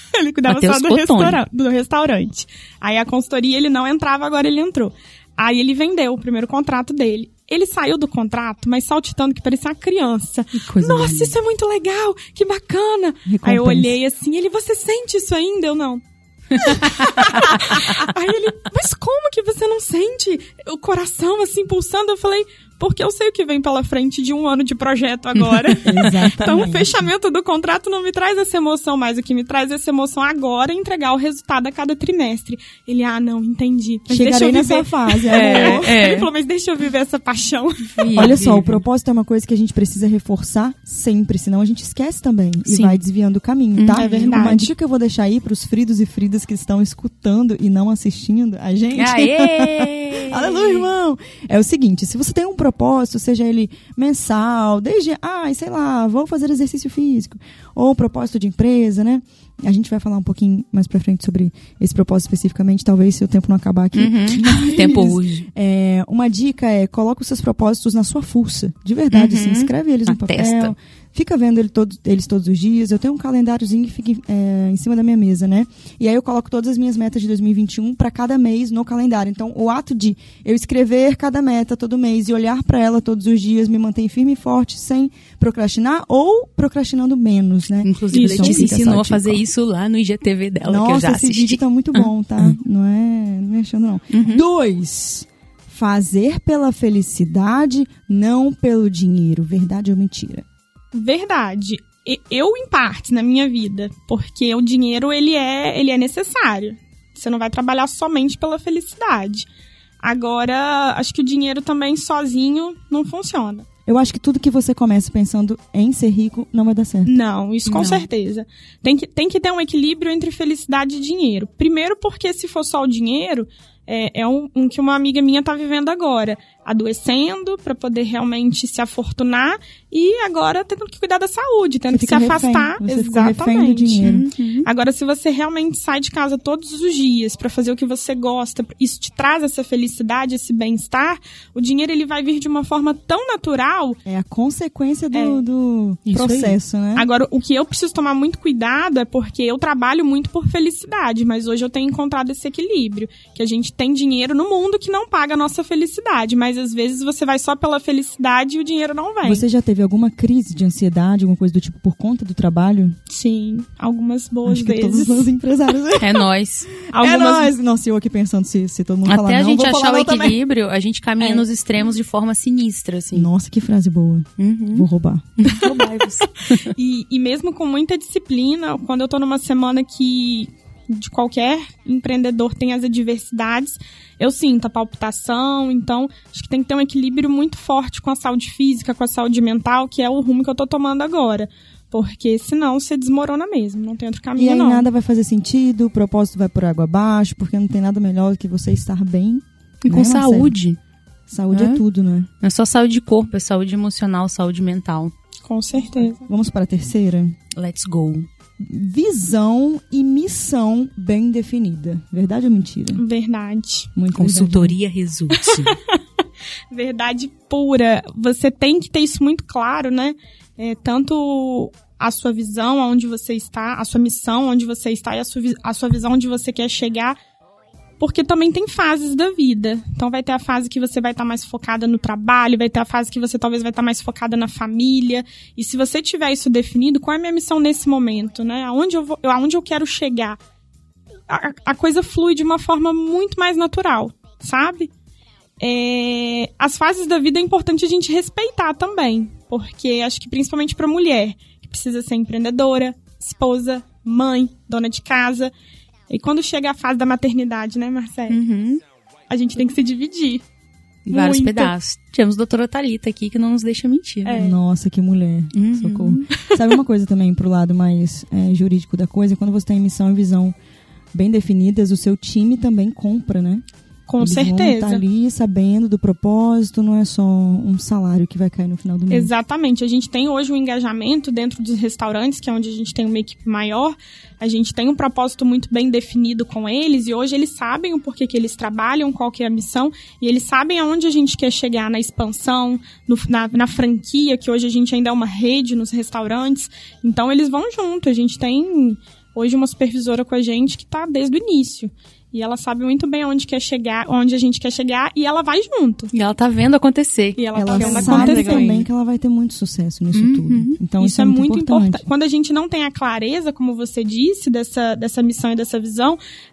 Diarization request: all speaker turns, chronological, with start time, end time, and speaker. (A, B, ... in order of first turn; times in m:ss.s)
0:00.2-0:16.0 A
0:00.5-0:01.4 B
0:10.6-0:11.4 B
0:13.3-0:14.0 C
0:16.6-0:18.0 B
0:17.0-0:38.3 A
0:25.8-0:27.1 C
0:34.1-0:35.9 C
0:35.3-0:36.3 B
0:38.0-0:38.8 B
0:38.1-1:29.4 C
0:42.7-0:43.0 B
0:43.8-0:44.4 B
0:44.0-0:44.7 A
0:49.0-0:50.9 B
1:03.9-1:05.5 B
1:09.1-1:10.7 B
1:27.8-1:32.6 B
1:28.1-1:28.7 A
1:30.6-1:40.4 C
1:34.1-1:34.4 B
1:40.9-1:49.5 A
1:50.0-1:53.7 A
1:53.9-1:57.1 C
1:57.0-2:14.1 A
1:57.7-1:58.1 B
2:11.9-2:14.2 C
2:14.0-2:14.7 B
2:14.6-2:24.0 A
2:24.1-2:27.1 C
2:25.1-2:25.5 A
2:26.1-2:26.6 B
2:27.0-2:39.4 A
2:39.2-2:43.0 C
2:43.1-2:45.3 A
2:44.5-2:46.2 C
2:46.0-2:46.7 B
2:46.9-2:50.4 C
2:46.9-2:47.5 A
2:49.1-2:53.3 B
2:53.1-2:55.3 C
2:54.4-2:54.9 B
2:55.4-2:56.6 B
2:56.7-3:14.9 A
3:14.4-3:20.6 C
3:19.8-3:20.8 B
3:21.3-3:22.3 C
3:21.5-3:21.8 B
3:22.4-3:25.1 B
3:25.4-3:26.2 A
3:26.2-3:27.4 C
3:27.6-3:28.3 B
3:28.6-3:33.0 C
3:32.9-3:33.9 A
3:34.0-3:34.8 C
3:34.1-3:35.8 B
3:35.4-3:36.0 A
3:36.7-3:47.2 A
3:48.0-4:00.4 A
4:01.3-4:04.9 A
4:05.6-4:15.5 A
4:16.1-4:18.4 A
4:18.3-4:18.8 B
4:19.3-4:20.4 A
4:21.1-4:24.4 B
4:21.1-4:21.7 A
4:24.2-4:24.6 A
4:24.3-4:30.6 C
4:25.5-4:26.3 B
4:31.1-4:33.6 C
4:34.1-4:35.0 A
4:34.2-4:39.3 C
4:39.1-5:06.1 A
5:06.1-5:08.9 B
5:07.4-5:08.8 A
5:07.6-5:12.0 C
5:10.1-5:10.8 B
5:11.0-5:16.2 A